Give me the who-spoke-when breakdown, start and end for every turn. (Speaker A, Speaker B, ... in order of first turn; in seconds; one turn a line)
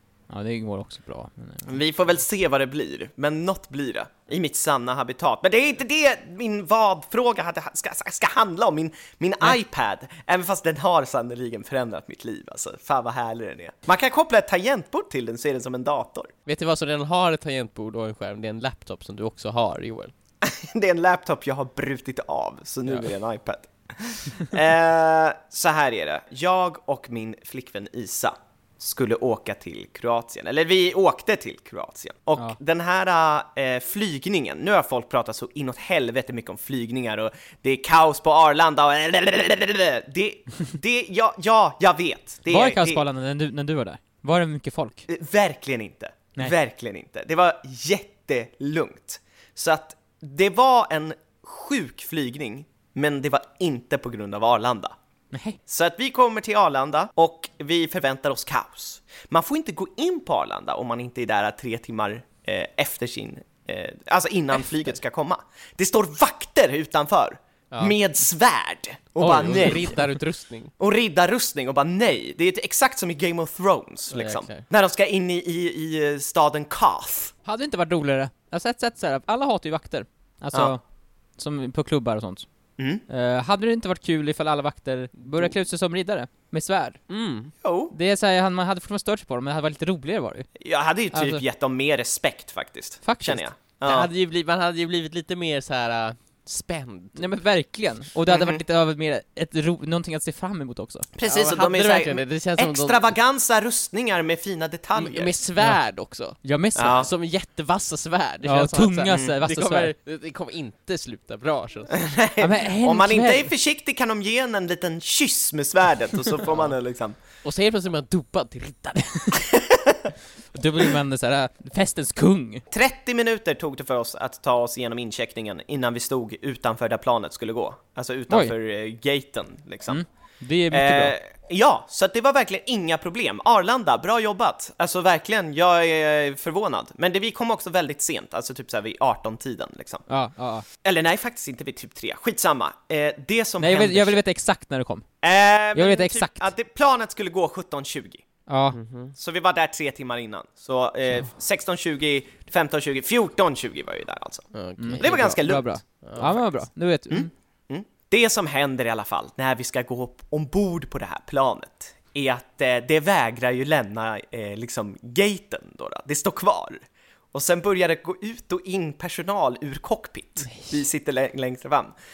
Speaker A: 0.3-1.7
Speaker B: 1.6-16.3
Speaker C: 16.4-20.1
Speaker B: 20.4-43.0
Speaker A: 42.5-45.1
Speaker B: 45.1-55.0
Speaker A: 55.3-55.6
Speaker B: 55.6-70.2
Speaker C: 67.7-68.0
Speaker C: 69.2-70.7
Speaker B: 70.8-77.3
Speaker C: 74.1-74.7
Speaker A: 77.4-87.1
Speaker B: 82.8-83.0
Speaker C: 87.1-87.5
Speaker B: 87.6-87.9
Speaker A: 87.9-90.5
Speaker B: 90.6-94.1
Speaker A: 91.1-91.4
Speaker A: 93.0-93.5
Speaker C: 93.8-97.4
Speaker A: 97.2-101.1
Speaker B: 98.3-98.6
Speaker B: 101.2-105.4
Speaker C: 101.2-103.1
Speaker C: 104.9-112.0
Speaker A: 105.6-107.0
Speaker B: 106.8-107.1
Speaker A: 108.4-109.9
Speaker B: 109.1-109.3
Speaker B: 112.0-117.2
Speaker A: 112.4-113.5
Speaker C: 117.4-119.4
Speaker B: 119.5-120.0
Speaker A: 120.5-122.6
Speaker B: 122.7-130.0
Speaker A: 129.9-131.2
Speaker B: 130.7-140.0
Speaker A: 140.1-140.7
Speaker B: 140.8-144.2
Speaker A: 143.6-145.1
Speaker B: 145.2-148.2
Speaker A: 145.7-146.5
Speaker A: 148.5-148.8
Speaker C: 148.7-149.1
Speaker B: 149.1-156.5
Speaker C: 154.5-155.4
Speaker A: 154.8-157.3
Speaker C: 156.0-156.3
Speaker B: 157.1-171.9
Speaker C: 170.5-170.8